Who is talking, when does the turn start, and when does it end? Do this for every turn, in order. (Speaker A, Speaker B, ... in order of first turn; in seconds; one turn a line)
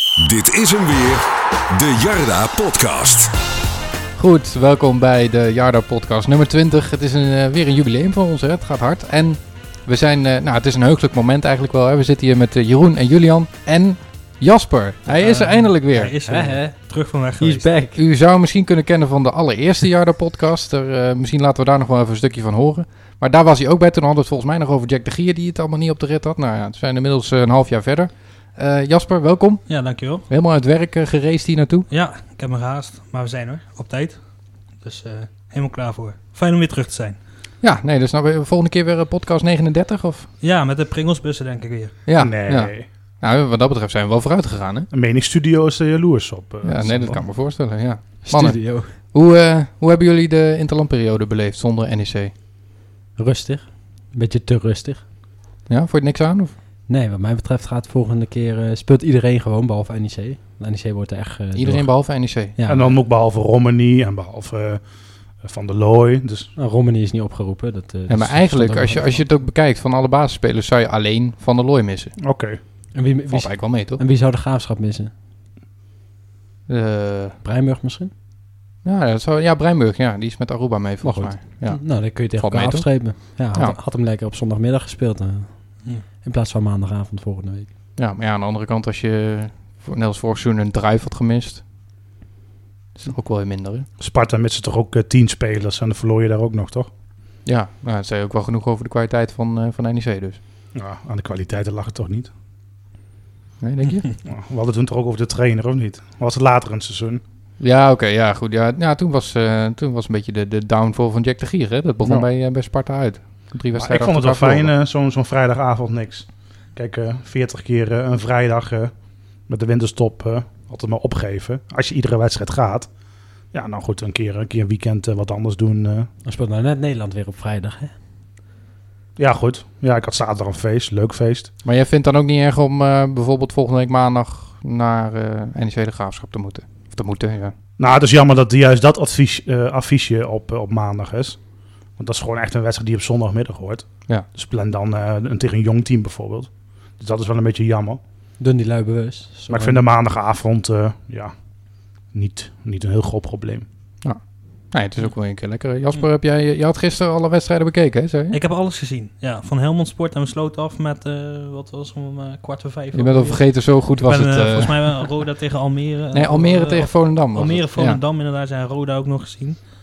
Speaker A: 0.2-3.3
Speaker B: 4.2-16.1
Speaker C: 15.1-17.7
Speaker D: 16.3-18.0
Speaker B: 17.9-31.9
Speaker C: 29.7-30.3
Speaker C: 31.9-34.2
Speaker C: 34.8-37.2
Speaker B: 37.6-40.3
Speaker C: 40.4-42.0
Speaker B: 42.1-44.9
Speaker E: 42.2-42.9
Speaker E: 44.9-47.2
Speaker B: 46.6-52.3
Speaker D: 48.2-49.0
Speaker D: 53.2-55.0
Speaker B: 55.7-56.6
Speaker D: 56.9-61.9
Speaker B: 61.5-62.6
Speaker D: 62.6-62.9
Speaker E: 62.7-64.8
Speaker E: 65.4-66.5
Speaker D: 66.6-69.2
Speaker B: 68.1-72.2
Speaker E: 72.2-72.6
Speaker D: 73.0-75.1
Speaker B: 73.3-74.0
Speaker B: 76.7-77.4
Speaker D: 77.4-78.1
Speaker B: 78.8-83.8
Speaker D: 81.0-87.7
Speaker B: 88.0-91.6
Speaker B: 93.0-93.9
Speaker E: 94.0-96.9
Speaker B: 97.5-100.4
Speaker E: 100.7-102.3
Speaker B: 103.6-104.1
Speaker E: 104.2-107.2
Speaker B: 107.6-114.7
Speaker E: 113.8-118.9
Speaker E: 119.5-122.9
Speaker E: 123.5-126.1
Speaker D: 126.2-127.9
Speaker E: 129.2-131.5
Speaker B: 131.7-137.5
Speaker E: 137.8-141.4
Speaker E: 142.0-148.0
Speaker D: 148.4-149.8
Speaker E: 149.5-151.3
Speaker E: 152.1-153.7
Speaker B: 154.7-158.4
Speaker C: 158.3-169.6
Speaker B: 162.9-165.1
Speaker B: 166.1-168.0